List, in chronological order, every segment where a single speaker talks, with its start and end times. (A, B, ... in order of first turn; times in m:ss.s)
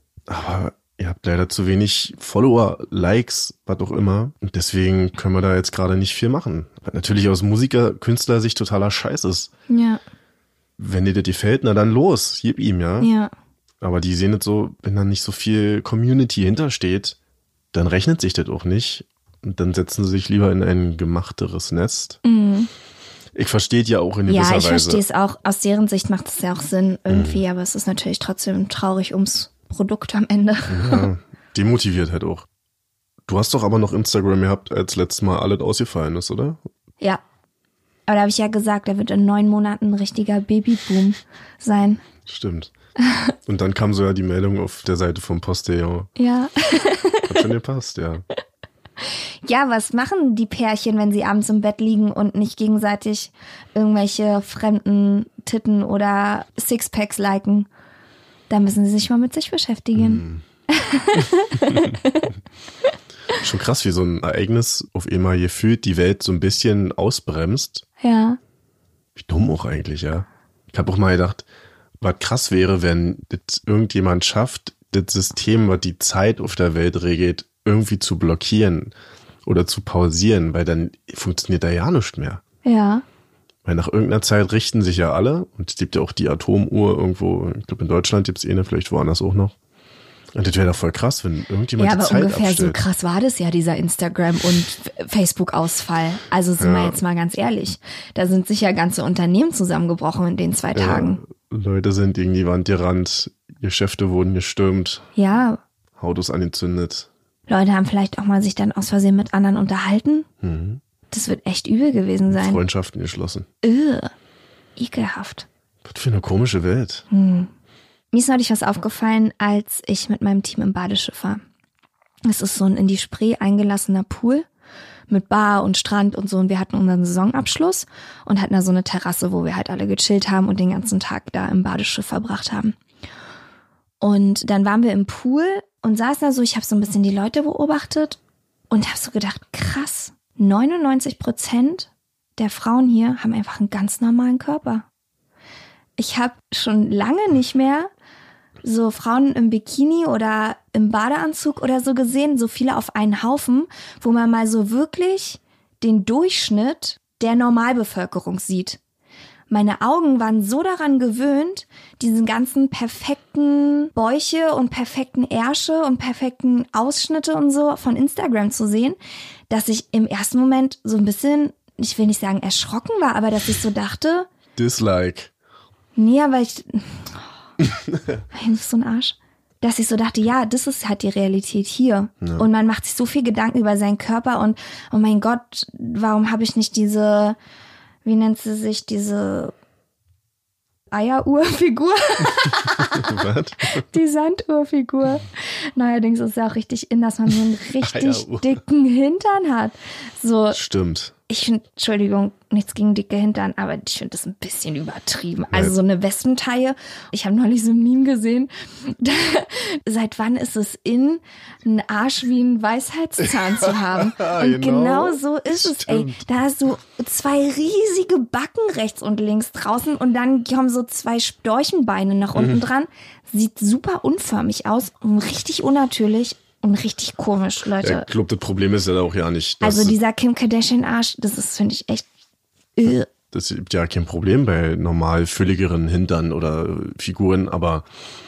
0:00.3-0:09.5 A
0:09.7-0:10.0 B
0:10.8-0:13.1 A
0:13.0-0:13.3 B
0:13.8-0:17.2 A
0:17.7-0:22.2 A
0:22.2-0:22.7 B
0:23.3-0:25.0 A
0:24.3-0:31.1 B
0:27.1-0:27.4 A
0:30.7-0:32.5 A
0:33.2-0:36.6 A
0:38.1-0:42.0 B
0:42.2-0:42.7 A
0:43.0-0:43.3 B
0:43.4-0:46.1 A
0:46.2-0:47.4 B
0:47.3-0:48.2 A
0:49.0-0:57.7 B
0:58.5-1:02.3 B
0:59.9-1:00.4 A
1:03.4-1:07.8 A
1:08.0-1:08.4 B
1:09.1-1:11.4 A
1:12.0-1:18.9 A
1:19.4-1:22.4 A
1:22.6-1:23.0 B
1:23.6-1:29.5 A
1:30.3-1:32.8 A
1:31.8-1:41.2 B
1:36.6-1:37.0 A
1:40.7-1:45.1 A
1:45.2-1:45.6 B
1:46.0-1:47.1 A
1:47.5-1:50.3 B
1:50.4-1:50.8 A
1:51.1-1:52.6 B
1:52.3-1:53.5 A
1:53.6-1:54.1 B
1:54.8-1:55.4 B
1:55.8-1:57.0 A
1:57.1-1:57.5 B
1:58.1-2:01.4 B
2:02.3-2:04.5 B
2:05.1-2:12.8 B
2:14.0-2:18.2 B
2:18.7-2:24.8 B
2:26.0-2:27.9 B
2:28.6-2:38.8 B
2:39.5-2:49.0 B
2:49.5-2:54.3 B
2:54.6-2:55.3 A
2:56.0-2:57.3 B
2:58.3-3:07.4 B
3:02.2-3:02.5 A
3:08.0-3:09.5 B
3:10.9-3:20.6 B
3:12.8-3:13.8 A
3:17.8-3:18.6 A
3:20.5-3:21.1 A
3:21.3-3:48.1 B
3:33.6-3:36.2 A
3:42.3-3:42.6 A
3:47.8-3:50.0 A
3:49.6-3:52.0 B
3:52.8-3:53.1 B
3:53.3-3:57.8 A